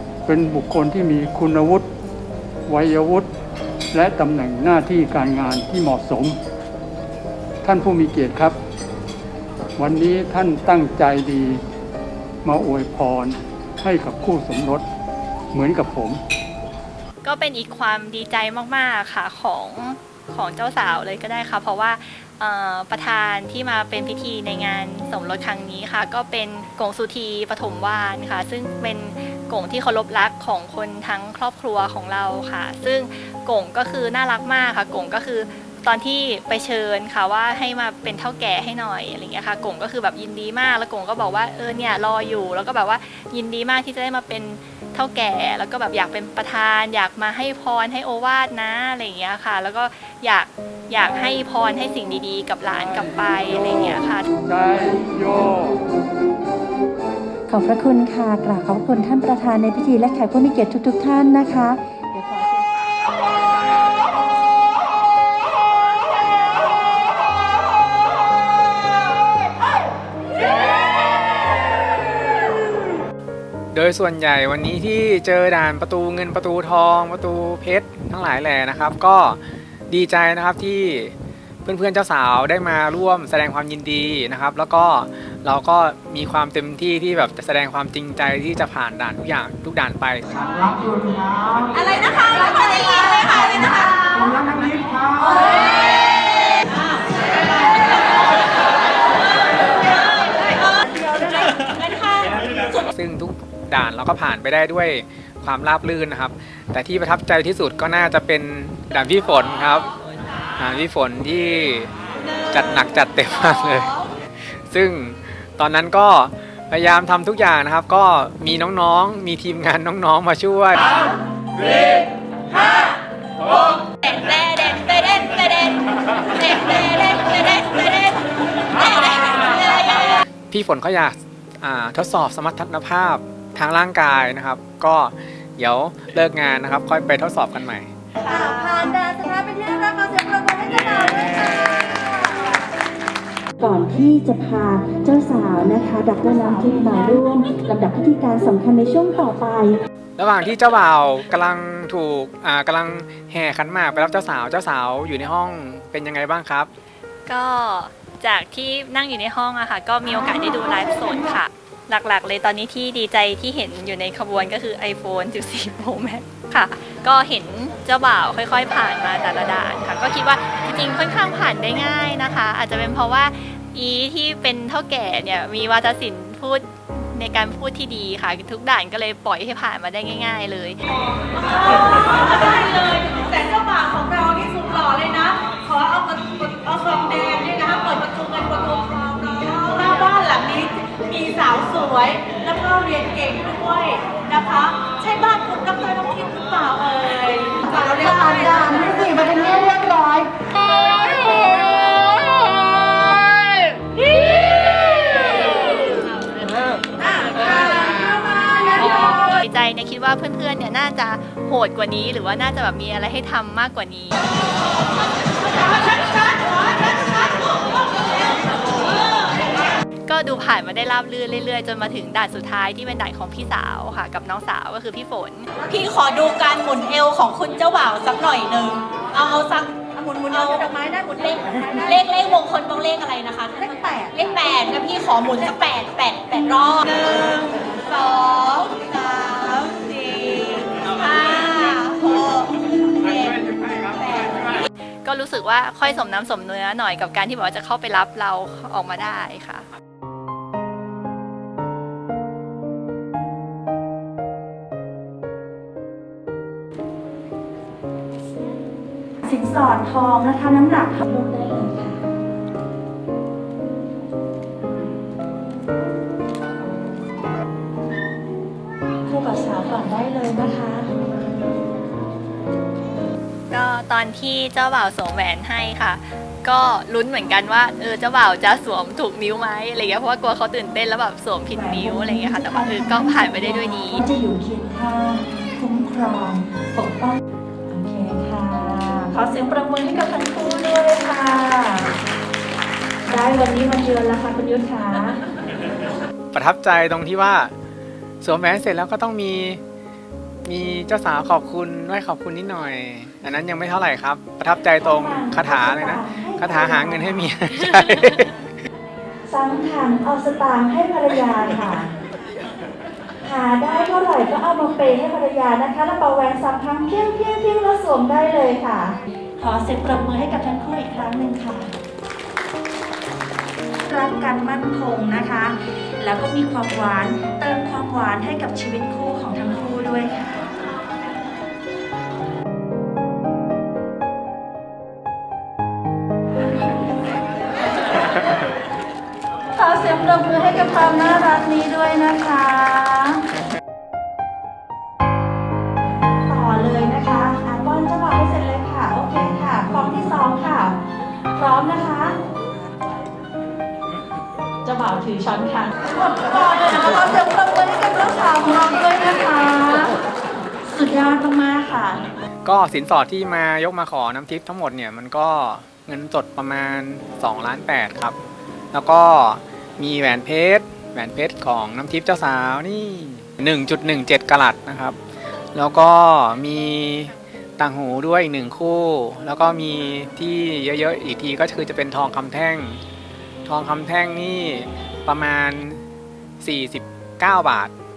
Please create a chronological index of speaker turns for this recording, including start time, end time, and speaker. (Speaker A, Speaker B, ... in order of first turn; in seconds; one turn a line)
Speaker A: 0.3-1.9
Speaker A: 2.7-3.3
Speaker A: 3.9-6.4
Speaker A: 7.6-8.6
Speaker A: 9.8-11.6
Speaker A: 12.4-14.8
Speaker A: 15.5-16.2
Speaker B: 17.2-54.3
Speaker A: 53.5-55.8
Speaker C: 57.5-62.5
Speaker D: 73.7-81.1
Speaker D: 81.6-90.4
Speaker E: 91.7-98.0
Speaker E: 99.7-102.9
Speaker D: 102.9-109.9
Speaker D: 110.6-111.9
Speaker D: 112.5-113.9
Speaker D: 114.7-120.9
Speaker E: 124.0-125.8
Speaker E: 126.3-128.2
Speaker E: 128.8-130.2
Speaker D: 130.5-137.9
Speaker C: 138.2-142.6
Speaker E: 138.2-139.0
Speaker C: 143.6-149.8
Speaker D: 150.2-156.7
Speaker B: 157.2-180.8
Speaker E: 181.4-200.0
Speaker B: 208.7-214.2
Speaker B: 220.1-225.5
Speaker E: 225.7-244.7
Speaker C: 233.6-234.2
Speaker B: 245.0-249.7
Speaker C: 259.2-262.0
Speaker C: 269.1-270.9
Speaker B: 273.5-284.0
Speaker C: 281.5-291.9
Speaker C: 293.0-295.2
Speaker D: 296.3-297.5
Speaker D: 298.2-299.6
Speaker D: 300.4-308.3
Speaker C: 304.9-307.2
Speaker B: 307.9-308.2
Speaker C: 309.3-311.9
Speaker C: 313.2-321.7
Speaker C: 323.9-330.4
Speaker C: 339.5-343.2
Speaker C: 346.3-350.8
Speaker C: 351.3-352.1
Speaker C: 354.6-359.9
Speaker C: 360.7-362.0
Speaker D: 362.4-368.2
Speaker D: 368.7-375.0
Speaker D: 375.5-382.8
Speaker D: 383.4-385.8
Speaker D: 386.4-387.7